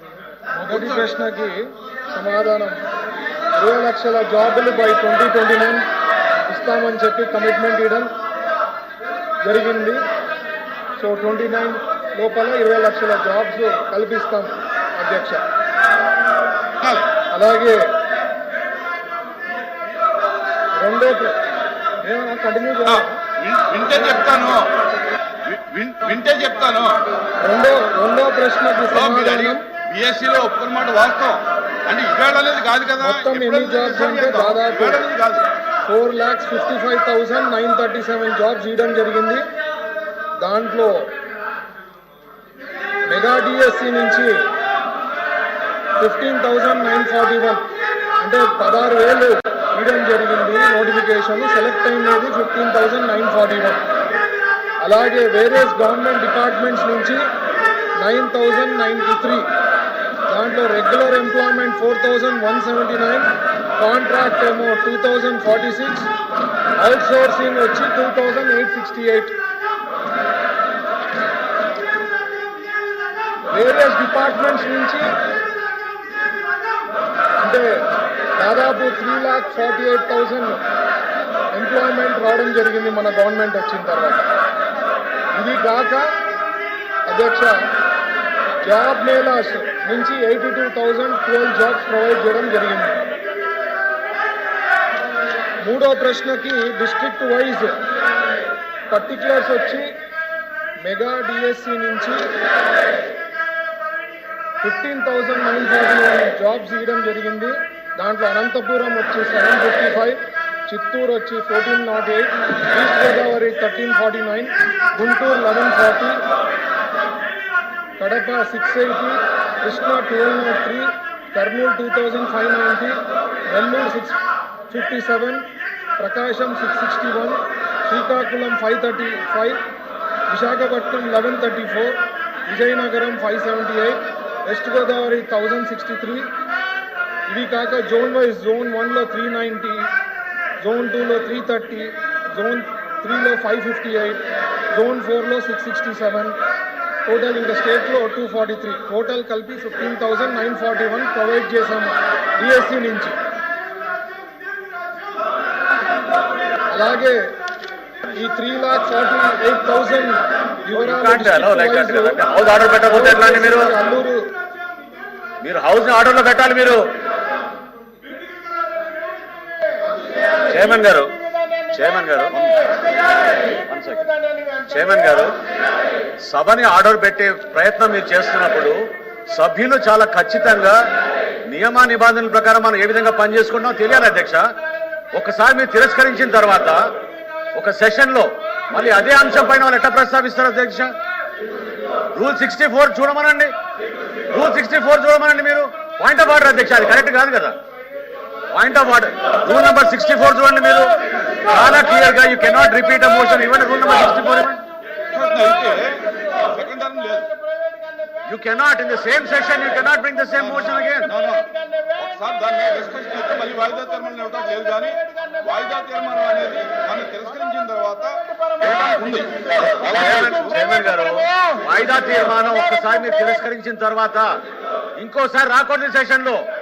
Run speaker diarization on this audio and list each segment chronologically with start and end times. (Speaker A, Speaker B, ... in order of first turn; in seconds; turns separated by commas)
Speaker A: 0.6-2.8, Speaker B: 0.7-1.0, Speaker A: 3.5-5.8, Speaker A: 6.5-8.1, Speaker A: 9.4-10.0, Speaker A: 11.0-15.4, Speaker B: 16.8-17.1, Speaker A: 17.3-17.9, Speaker A: 20.8-21.4, Speaker A: 22.0-23.2, Speaker B: 22.9-24.7, Speaker B: 25.4-27.0, Speaker A: 27.4-29.6, Speaker B: 28.9-35.4, Speaker A: 33.0-35.0, Speaker A: 35.9-39.4, Speaker A: 40.4-41.1, Speaker A: 43.1-44.4, Speaker A: 46.0-47.7, Speaker A: 48.2-53.9, Speaker A: 54.8-57.2, Speaker A: 58.0-59.5, Speaker A: 60.3-66.1, Speaker A: 66.8-69.3, Speaker A: 73.5-75.1, Speaker A: 77.4-80.6, Speaker A: 81.5-84.3, Speaker A: 85.3-86.1, Speaker A: 87.1-87.6, Speaker A: 88.6-93.0, Speaker A: 95.6-97.8, Speaker A: 98.9-99.9, Speaker A: 100.8-102.3, Speaker A: 104.6-116.2, Speaker A: 118.0-125.5, Speaker A: 126.0-129.6, Speaker A: 130.3-136.3, Speaker A: 137.3-139.9, Speaker A: 140.6-146.4, Speaker A: 147.1-153.2, Speaker A: 156.7-157.2, Speaker A: 158.1-162.2, Speaker C: 160.7-163.7, Speaker A: 162.8-164.3, Speaker C: 165.4-166.8, Speaker C: 170.5-171.2, Speaker C: 171.7-172.6, Speaker C: 173.7-175.3, Speaker C: 176.2-180.8, Speaker C: 181.4-184.4, Speaker C: 185.1-186.8, Speaker C: 187.5-190.9, Speaker C: 192.1-193.5, Speaker C: 194.3-197.6, Speaker C: 198.5-204.6, Speaker B: 205.1-207.3, Speaker C: 208.2-211.1, Speaker B: 210.3-219.4, Speaker C: 219.8-224.3, Speaker C: 225.0-226.4